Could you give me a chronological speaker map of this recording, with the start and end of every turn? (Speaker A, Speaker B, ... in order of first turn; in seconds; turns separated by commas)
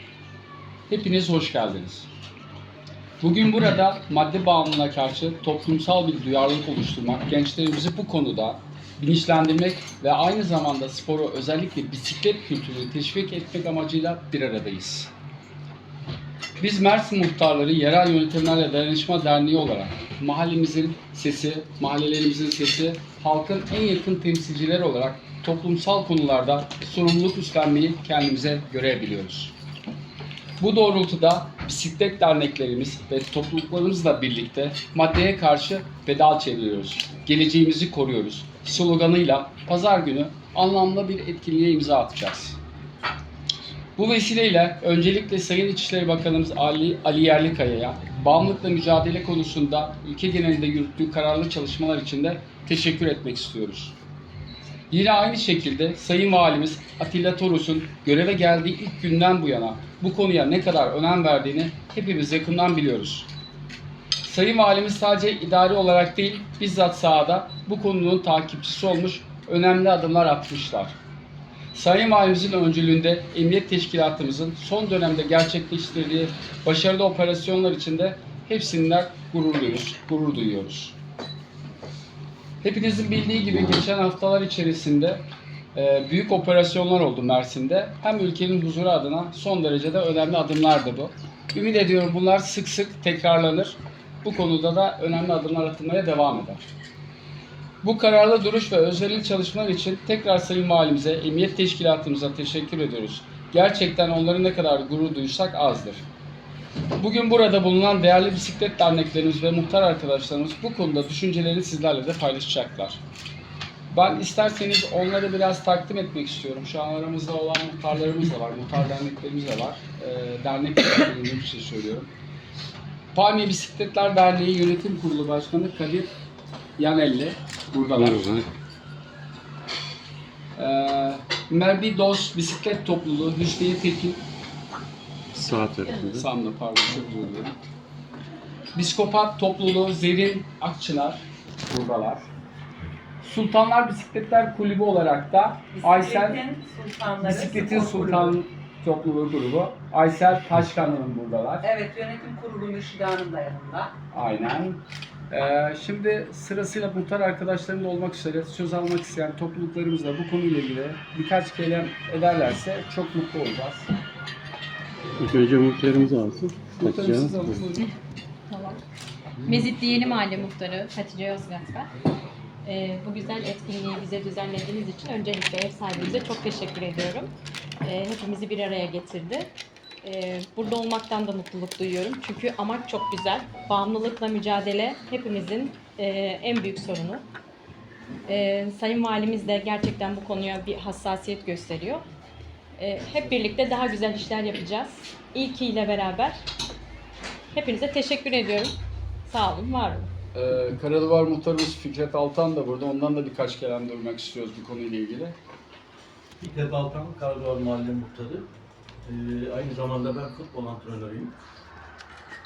Speaker A: 0.9-2.1, Speaker A: 3.2-15.1, Speaker A: 16.6-29.6, Speaker A: 30.6-42.6, Speaker A: 44.0-54.0, Speaker A: 54.9-63.3, Speaker A: 64.2-71.0, Speaker A: 71.7-81.0, Speaker A: 82.6-96.7, Speaker A: 97.8-106.0, Speaker A: 107.0-113.0, Speaker A: 113.9-122.1, Speaker A: 123.1-126.1, Speaker A: 126.8-128.3, Speaker B: 128.0-128.5, Speaker A: 130.6-134.2, Speaker B: 135.3-136.2, Speaker A: 136.1-137.6, Speaker A: 138.8-142.3, Speaker A: 143.2-146.4, Speaker C: 145.8-148.3, Speaker A: 147.2-151.7, Speaker C: 151.6-153.9, Speaker A: 154.1-163.9, Speaker B: 165.2-167.5, Speaker A: 166.8-167.9, Speaker D: 168.5-168.8, Speaker D: 169.4-171.9, Speaker D: 172.7-179.5, Speaker D: 180.0-187.2, Speaker D: 188.3-192.1, Speaker D: 192.8-196.4, Speaker D: 197.5-200.1, Speaker A: 200.3-205.4, Speaker E: 206.4-208.5, Speaker E: 209.1-211.3